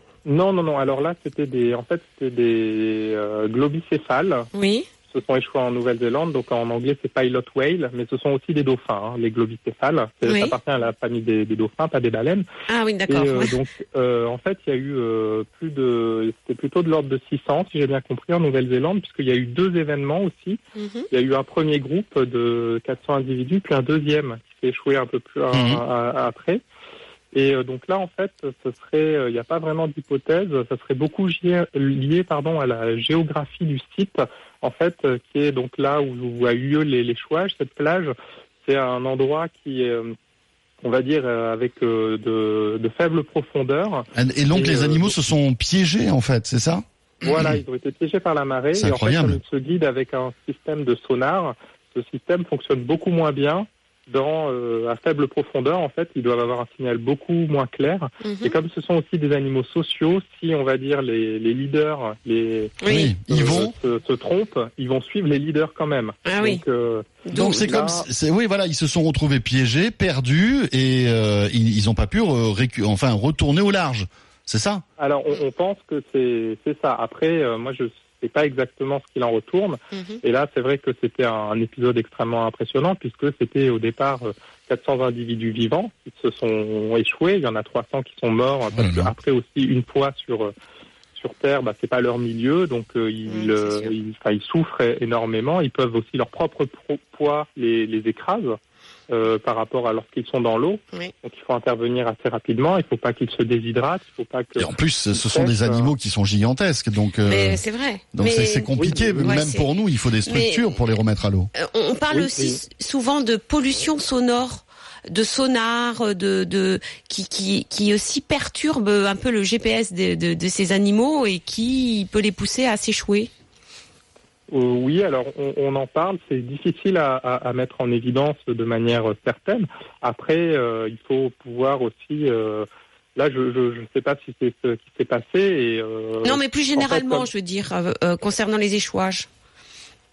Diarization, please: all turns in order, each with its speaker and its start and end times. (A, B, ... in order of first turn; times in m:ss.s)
0:00.2-0:04.5 A
0:04.5-0:04.9 B
0:05.1-0:12.4 A
0:10.2-0:10.6 B
0:12.7-0:13.6 B
0:13.1-0:20.6 A
0:20.7-0:21.1 B
0:21.1-0:26.6 A
0:25.5-0:25.8 C
0:27.3-0:40.1 A
0:40.8-0:45.1 A
0:44.1-0:47.6 C
0:47.2-1:08.0 A
0:48.8-0:49.4 C
0:58.2-0:58.6 B
1:02.8-1:03.1 B
1:02.9-1:03.7 C
1:06.2-1:06.6 B
1:07.2-1:07.8 B
1:07.3-1:14.8 C
1:15.0-1:30.5 A
1:19.9-1:20.2 B
1:28.7-1:29.1 C
1:31.2-1:38.6 A
1:33.3-1:33.9 B
1:39.1-1:45.9 A
1:44.6-1:47.6 C
1:47.2-1:49.7 B
1:48.1-1:51.5 C
1:48.7-1:49.4 A
1:50.3-1:50.8 B
1:51.5-2:03.3 B
1:52.1-1:52.6 A
2:04.5-2:17.3 A
2:16.2-2:19.3 B